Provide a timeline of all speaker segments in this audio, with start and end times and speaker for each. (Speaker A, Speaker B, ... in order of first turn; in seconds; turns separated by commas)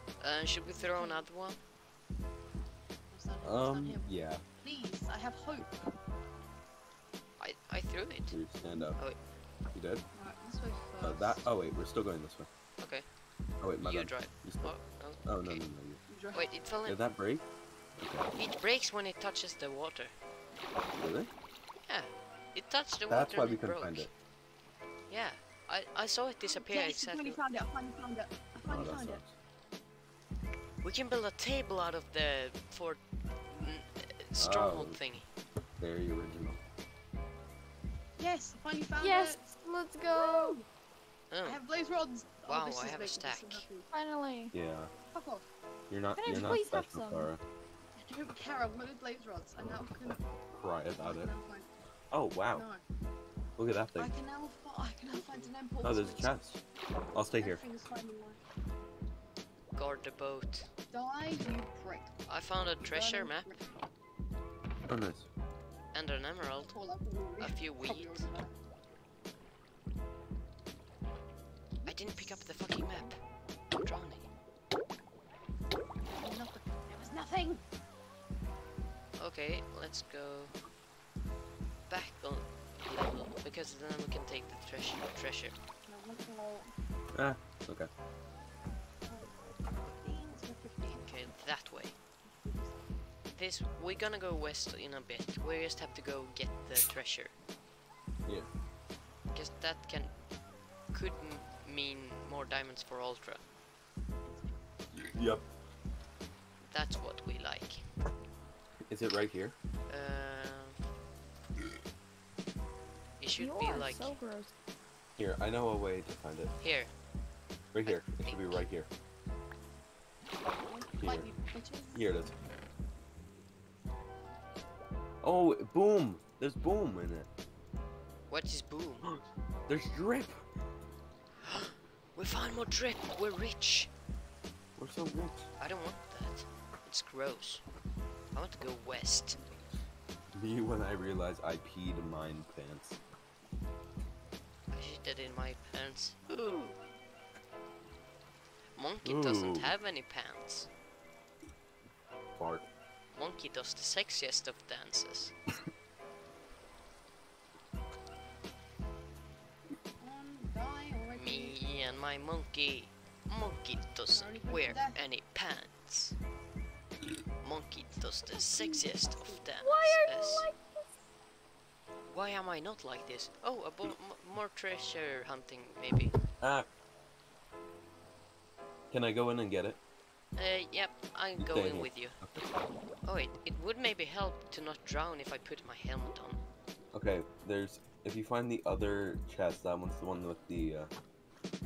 Speaker A: 0.2-1.6, Speaker B: 0.7-1.2, Speaker B: 3.1-5.8, Speaker C: 3.4-4.4, Speaker A: 7.4-8.3, Speaker C: 8.3-9.0, Speaker C: 9.7-10.0, Speaker B: 10.1-11.4, Speaker C: 11.0-12.5, Speaker A: 12.8-13.0, Speaker C: 13.6-16.0, Speaker A: 13.8-15.6, Speaker B: 16.1-16.6, Speaker A: 16.3-17.0, Speaker C: 16.9-17.4, Speaker C: 18.0-18.3, Speaker A: 18.3-20.1, Speaker C: 20.9-21.3, Speaker A: 21.8-24.1, Speaker C: 23.1-24.1, Speaker A: 25.1-27.4, Speaker B: 26.6-29.2, Speaker C: 28.6-29.3, Speaker A: 30.8-33.0, Speaker A: 33.5-35.2, Speaker C: 34.4-35.0, Speaker C: 35.8-36.6, Speaker B: 38.2-39.6, Speaker D: 39.0-40.6, Speaker B: 40.1-40.7, Speaker A: 41.3-41.6, Speaker B: 41.4-43.9, Speaker A: 42.5-43.6, Speaker D: 43.9-44.5, Speaker C: 44.5-44.9, Speaker B: 45.0-45.5, Speaker C: 45.9-47.4, Speaker D: 46.1-47.3, Speaker B: 48.0-50.2, Speaker C: 50.5-51.3, Speaker B: 51.0-51.7, Speaker C: 52.1-52.7, Speaker B: 52.5-52.8, Speaker C: 53.6-54.1, Speaker B: 54.0-56.3, Speaker C: 55.8-56.6, Speaker C: 57.1-57.6, Speaker B: 57.1-58.4, Speaker A: 59.7-60.7, Speaker B: 60.9-62.1, Speaker A: 62.3-63.6, Speaker B: 62.8-63.6, Speaker C: 64.9-65.3, Speaker A: 65.9-66.7, Speaker B: 66.7-68.5, Speaker A: 67.4-68.3, Speaker B: 71.8-72.6, Speaker A: 71.8-73.2, Speaker A: 73.7-74.3, Speaker B: 76.1-77.6, Speaker A: 79.2-80.5, Speaker A: 81.9-85.5, Speaker B: 85.9-86.7, Speaker C: 87.1-87.9, Speaker B: 89.0-89.4, Speaker B: 89.9-91.3, Speaker A: 91.0-92.0, Speaker B: 92.2-92.8, Speaker A: 93.3-97.3, Speaker A: 99.3-100.2, Speaker A: 100.9-103.4, Speaker C: 105.0-105.4, Speaker A: 106.6-107.9, Speaker C: 108.9-109.5, Speaker A: 109.9-110.8, Speaker A: 113.2-114.2, Speaker D: 113.4-114.5, Speaker C: 115.2-116.5, Speaker A: 116.6-116.9, Speaker C: 117.7-118.9, Speaker A: 117.8-118.7, Speaker B: 120.6-122.3, Speaker C: 121.0-121.3, Speaker C: 121.9-122.3, Speaker C: 125.2-127.3, Speaker A: 128.3-129.1, Speaker C: 129.0-130.4, Speaker A: 131.4-133.9, Speaker C: 134.8-135.5, Speaker A: 135.6-137.6, Speaker A: 138.3-139.4, Speaker C: 140.3-143.0, Speaker A: 144.7-146.7, Speaker A: 148.8-150.7, Speaker C: 149.0-149.7, Speaker C: 152.3-152.7, Speaker A: 153.1-155.3, Speaker B: 160.0-161.6, Speaker A: 161.1-166.2, Speaker B: 164.1-165.0, Speaker A: 167.4-170.5, Speaker B: 168.3-169.5, Speaker D: 169.6-170.8, Speaker A: 172.1-176.1, Speaker C: 176.4-176.7, Speaker C: 178.9-179.8, Speaker A: 180.4-182.2, Speaker C: 181.4-182.5, Speaker A: 183.0-186.4, Speaker C: 186.9-190.9